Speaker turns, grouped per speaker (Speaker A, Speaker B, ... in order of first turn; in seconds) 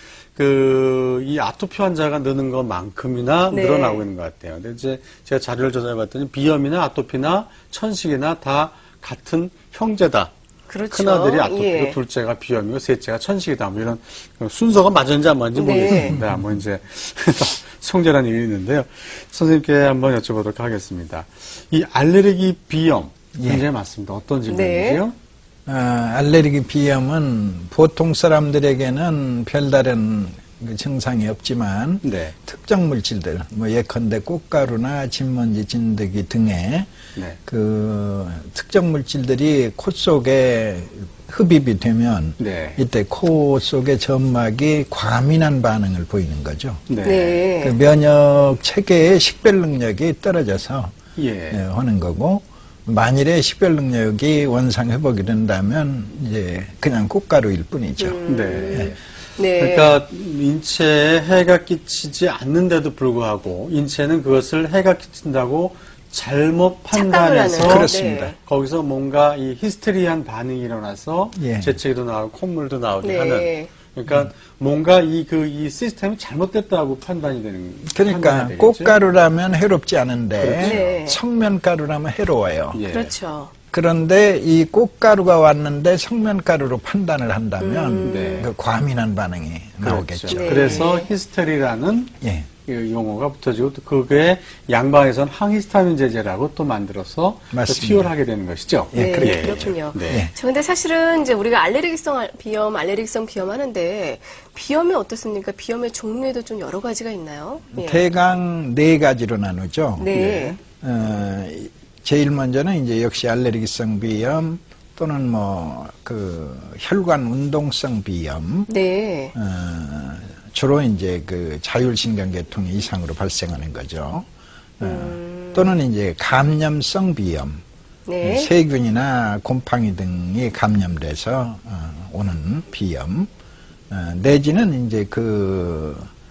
Speaker A: 0.3-10.3, 10.9-25.1, 32.0-32.4, 42.4-42.8, 46.9-47.4, 51.1-51.6, 58.3-59.0, 59.6-79.0, 80.4-81.0, 82.7-83.1, 88.0-88.5, 89.8-92.1, 92.6-100.2, 110.1-110.6
Speaker B: 3.5-4.0, 10.7-12.0, 15.5-16.2, 24.5-25.0, 47.0-47.8, 58.0-60.0, 66.9-68.3, 73.0-73.7, 80.6-81.2, 82.9-83.5, 87.6-88.4, 90.3-91.1, 98.9-108.0, 110.0-110.6, 118.7-119.3, 124.8-125.7, 128.1-128.5
Speaker C: 15.9-16.4, 23.3-23.6, 25.7-36.9, 37.5-46.8, 47.6-50.9, 51.5-58.2, 67.6-68.3, 71.3-71.7, 77.9-82.8, 83.7-90.8, 92.2-92.5, 97.5-98.1, 98.9-100.3, 107.7-110.1, 110.8-118.7, 119.3-124.2, 124.8-127.6, 128.2-133.3, 133.9-136.1